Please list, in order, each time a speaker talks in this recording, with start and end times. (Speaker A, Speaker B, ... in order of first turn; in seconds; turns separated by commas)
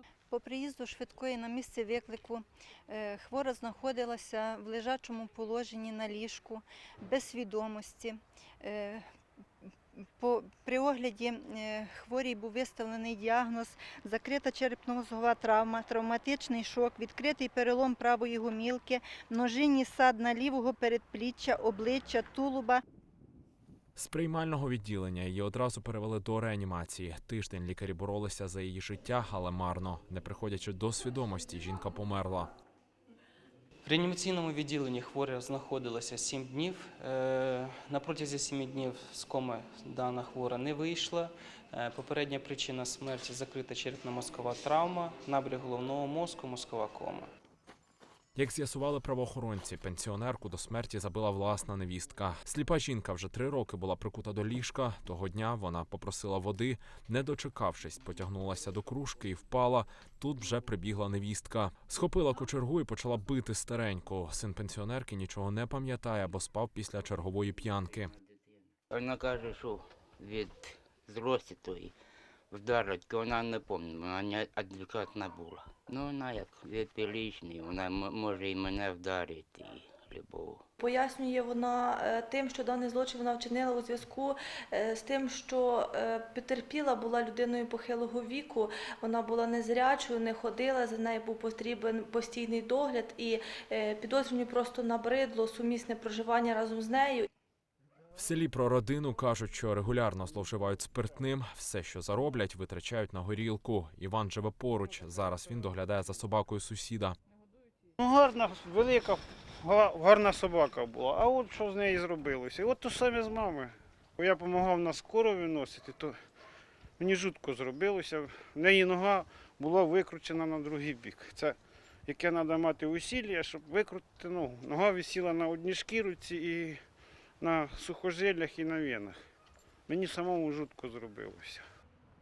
Speaker A: 0.3-9.0, Speaker A: 10.2-22.8, Speaker B: 24.0-32.5, Speaker C: 33.8-47.3, Speaker B: 48.4-68.1, Speaker D: 68.9-71.9, Speaker D: 72.5-80.6, Speaker E: 80.8-97.3, Speaker B: 98.2-107.2, Speaker F: 108.0-116.2, Speaker F: 117.0-126.8, Speaker F: 127.4-129.2, Speaker F: 129.9-131.6